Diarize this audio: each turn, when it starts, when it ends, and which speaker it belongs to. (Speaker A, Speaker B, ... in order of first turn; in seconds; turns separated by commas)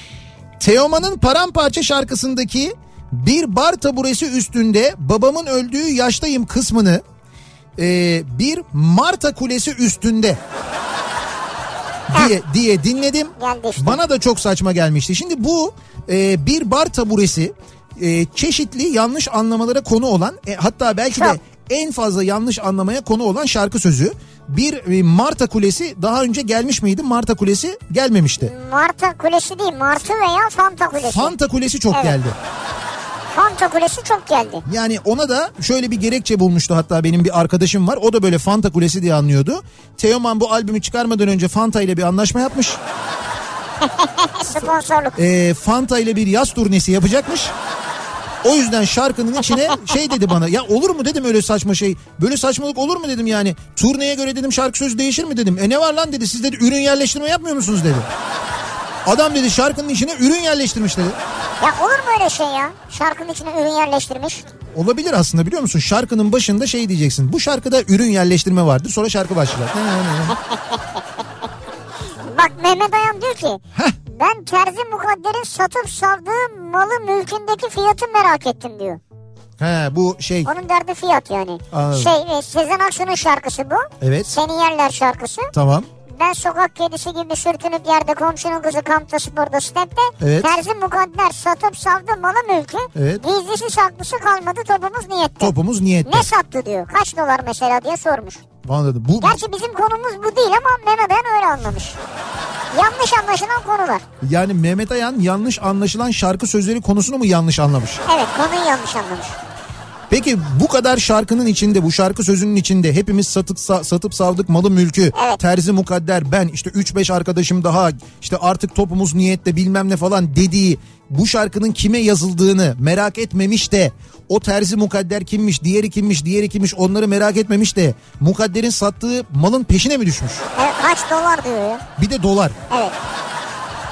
Speaker A: 0.6-7.0, Speaker A: 7.8-10.4, Speaker A: 12.1-28.5, Speaker B: 13.4-14.0, Speaker B: 21.1-21.4, Speaker B: 28.4-31.3, Speaker A: 31.0-32.4, Speaker B: 33.3-34.6, Speaker A: 34.6-42.8, Speaker B: 43.8-45.1, Speaker A: 45.1-47.5, Speaker A: 48.4-58.1, Speaker A: 59.0-61.2, Speaker B: 61.6-64.5, Speaker A: 64.7-70.4, Speaker B: 70.3-71.0, Speaker B: 72.2-79.0, Speaker A: 79.6-80.5, Speaker B: 80.4-85.5, Speaker A: 81.7-82.1, Speaker A: 84.0-84.3, Speaker A: 85.5-85.9, Speaker B: 86.1-95.5, Speaker A: 90.2-90.5, Speaker A: 92.9-93.2, Speaker A: 95.4-96.3, Speaker B: 96.0-98.4, Speaker A: 98.6-99.4, Speaker B: 99.2-102.0, Speaker B: 102.7-104.0, Speaker A: 104.2-108.0, Speaker B: 108.0-109.4, Speaker A: 110.1-130.4, Speaker B: 115.1-115.4, Speaker B: 130.6-131.8, Speaker A: 132.0-132.6, Speaker B: 132.7-132.9